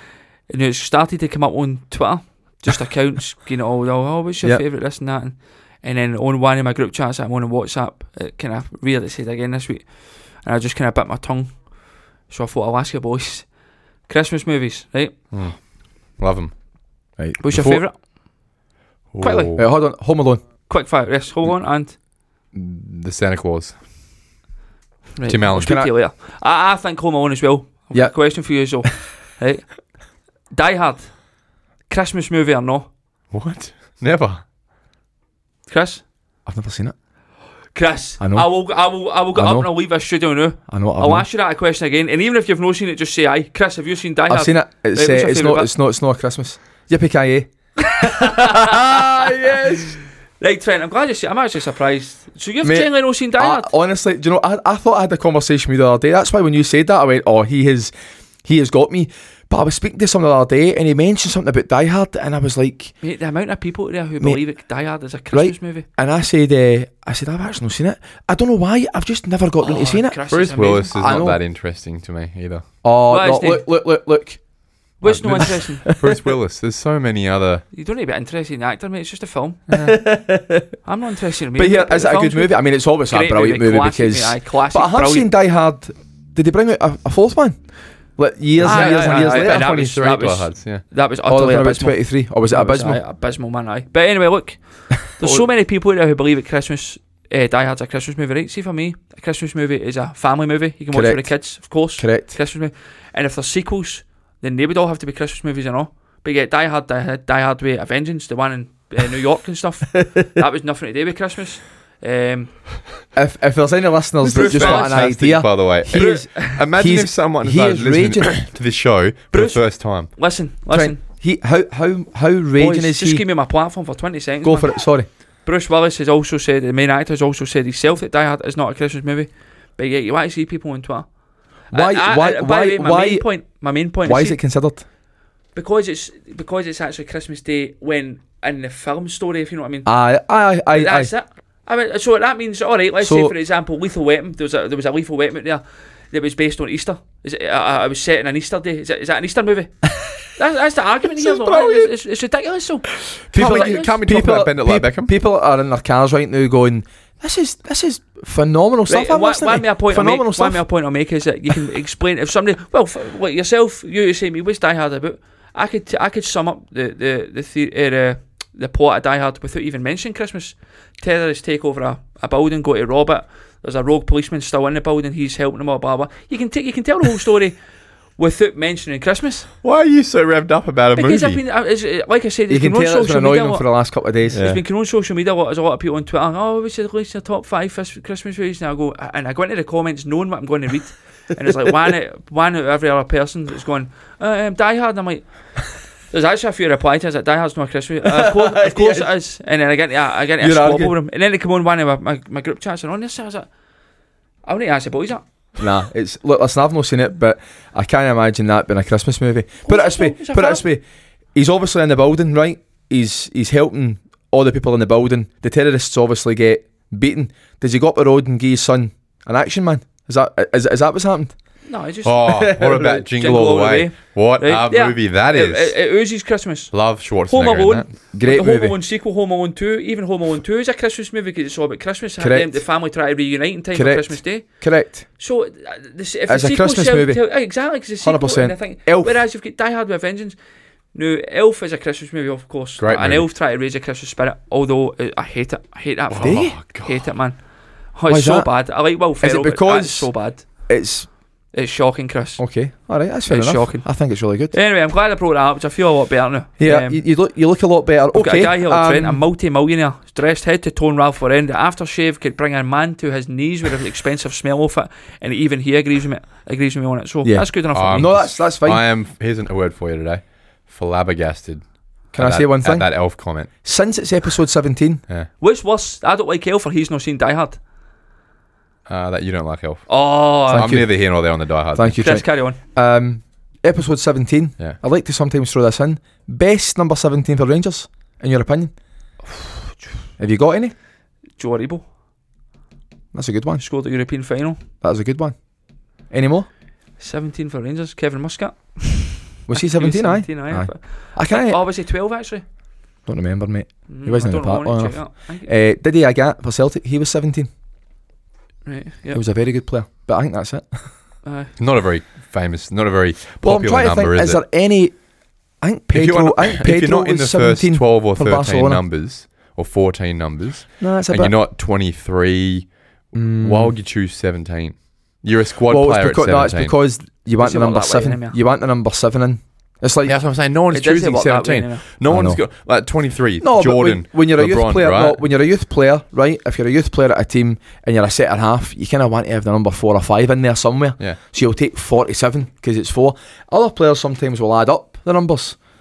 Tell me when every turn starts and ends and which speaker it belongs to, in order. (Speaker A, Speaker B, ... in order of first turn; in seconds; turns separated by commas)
Speaker A: 0.5-11.7, Speaker A: 12.3-13.5, Speaker A: 14.1-15.2, Speaker B: 15.3-16.5, Speaker C: 17.2-17.8, Speaker A: 17.4-18.0, Speaker B: 19.1-19.6, Speaker A: 19.2-19.6, Speaker C: 19.6-20.4, Speaker A: 20.7-22.0, Speaker B: 22.5-23.8, Speaker A: 25.2-29.8, Speaker B: 25.3-25.8, Speaker C: 25.5-25.9, Speaker A: 30.5-31.2, Speaker A: 31.9-32.9, Speaker B: 33.3-34.4, Speaker A: 35.7-36.0, Speaker C: 36.5-36.9, Speaker A: 37.7-45.7, Speaker C: 38.2-38.5, Speaker C: 39.4-39.7, Speaker C: 40.7-41.2, Speaker C: 44.3-50.0, Speaker A: 47.8-53.7, Speaker C: 52.6-57.9, Speaker C: 58.4-62.9, Speaker A: 63.0-65.9, Speaker C: 65.3-70.2, Speaker A: 69.6-71.2, Speaker B: 70.3-72.7, Speaker C: 71.0-71.4, Speaker C: 72.8-74.4, Speaker A: 73.1-73.7, Speaker A: 75.0-75.8, Speaker B: 75.1-77.6, Speaker C: 75.3-76.2, Speaker A: 77.7-79.7, Speaker C: 79.8-80.7, Speaker A: 80.8-85.3, Speaker C: 81.5-89.8, Speaker B: 88.6-90.8, Speaker A: 88.6-112.7, Speaker C: 91.3-93.0, Speaker C: 95.2-95.5, Speaker C: 100.9-102.3, Speaker C: 113.1-118.4, Speaker A: 114.2-115.1, Speaker B: 114.3-120.1, Speaker A: 115.9-116.6, Speaker A: 119.3-121.0, Speaker C: 120.7-123.2, Speaker A: 122.6-124.9, Speaker C: 124.4-125.1, Speaker A: 125.4-131.1, Speaker A: 131.7-134.4, Speaker C: 131.7-133.2, Speaker C: 134.1-134.8, Speaker A: 135.6-139.9, Speaker C: 139.9-141.1, Speaker A: 140.7-149.8, Speaker C: 143.0-143.3, Speaker A: 150.3-154.0, Speaker B: 151.3-151.9, Speaker C: 153.3-160.6, Speaker B: 153.3-155.1, Speaker A: 158.9-177.6, Speaker A: 178.2-179.5, Speaker B: 179.6-181.4, Speaker A: 180.9-183.7, Speaker C: 182.5-184.4, Speaker A: 184.3-203.5, Speaker B: 184.3-184.6, Speaker C: 198.1-199.1, Speaker C: 200.4-200.9, Speaker A: 204.4-205.2, Speaker C: 205.6-210.8, Speaker A: 209.7-210.7, Speaker C: 211.3-221.3, Speaker A: 221.7-226.7, Speaker B: 222.1-225.8, Speaker C: 222.5-223.4, Speaker B: 226.7-228.0, Speaker A: 227.2-234.6, Speaker C: 228.1-228.8, Speaker C: 232.2-232.6, Speaker C: 233.7-235.1, Speaker A: 235.2-240.4, Speaker C: 236.3-237.2, Speaker C: 238.0-239.2, Speaker A: 240.9-250.5, Speaker B: 242.8-243.3, Speaker B: 246.1-247.1, Speaker C: 246.2-246.5, Speaker C: 248.1-248.5, Speaker C: 249.2-251.1, Speaker A: 251.5-252.4, Speaker C: 252.4-254.6, Speaker A: 253.3-253.9, Speaker A: 254.5-257.0, Speaker C: 256.6-259.2, Speaker A: 258.1-268.1, Speaker C: 267.2-268.8, Speaker B: 267.7-273.5, Speaker C: 272.1-275.0, Speaker A: 275.4-277.6, Speaker B: 278.9-282.0, Speaker A: 279.9-280.7, Speaker C: 280.5-288.7, Speaker A: 282.0-282.6, Speaker C: 290.2-290.7, Speaker A: 291.4-291.8, Speaker C: 293.1-293.6, Speaker A: 293.6-294.6, Speaker C: 294.8-295.4, Speaker C: 296.1-296.5, Speaker A: 297.0-302.4, Speaker C: 299.5-301.6, Speaker C: 303.1-307.5, Speaker A: 303.9-305.5, Speaker A: 308.6-309.2, Speaker C: 309.1-310.7, Speaker A: 311.2-311.5, Speaker B: 311.6-314.4, Speaker C: 313.4-315.0, Speaker C: 315.6-318.8, Speaker B: 315.9-326.8, Speaker C: 320.8-321.3, Speaker C: 323.1-323.8, Speaker C: 325.7-330.1, Speaker A: 327.4-328.4, Speaker B: 330.1-335.2, Speaker A: 330.7-331.8, Speaker C: 332.1-332.4, Speaker C: 333.4-345.6